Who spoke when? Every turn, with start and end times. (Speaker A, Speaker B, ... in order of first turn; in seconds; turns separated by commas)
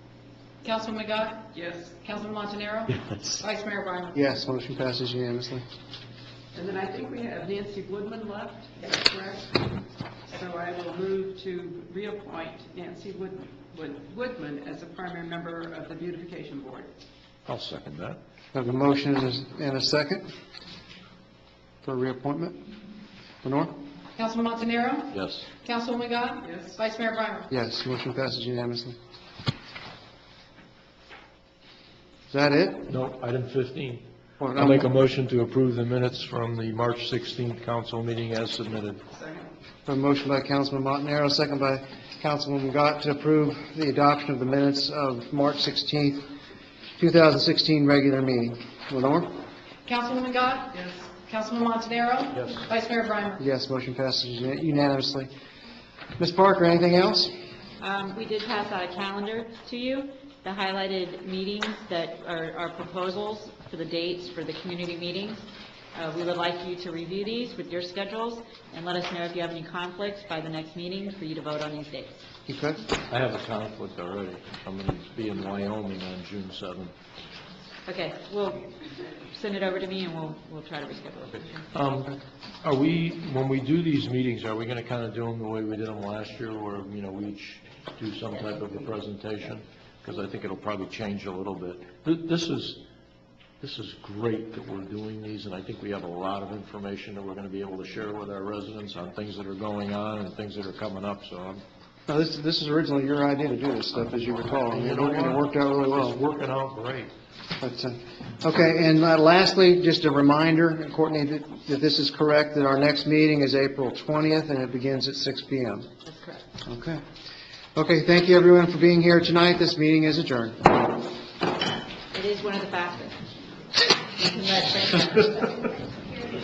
Speaker A: 0.6-1.5, Speaker B: 1.5-2.0, Speaker A: 2.0-4.2, Speaker C: 4.1-5.6, Speaker B: 6.5-16.9, Speaker D: 17.5-18.2, Speaker C: 18.5-20.2, Speaker C: 21.8-22.6, Speaker C: 23.4-23.7, Speaker A: 24.2-27.5, Speaker D: 25.1-25.4, Speaker B: 26.4-26.8, Speaker C: 27.5-28.9, Speaker C: 32.3-32.9, Speaker D: 32.9-34.0, Speaker C: 34.4-34.9, Speaker D: 34.6-39.0, Speaker B: 39.1-39.5, Speaker C: 39.9-46.3, Speaker C: 47.0-49.3, Speaker A: 49.9-53.4, Speaker B: 50.7-51.1, Speaker C: 53.4-55.3, Speaker C: 56.2-57.3, Speaker E: 57.8-65.4, Speaker E: 65.9-72.2, Speaker C: 72.5-72.8, Speaker D: 73.1-76.9, Speaker E: 77.8-78.7, Speaker E: 79.2-81.7, Speaker D: 81.7-92.8, Speaker D: 93.6-101.6, Speaker C: 102.1-106.2, Speaker D: 104.6-107.1, Speaker C: 107.6-115.9, Speaker E: 116.0-116.4, Speaker C: 116.7-117.0, Speaker C: 117.8-120.8, Speaker E: 122.1-123.2, Speaker E: 123.8-125.7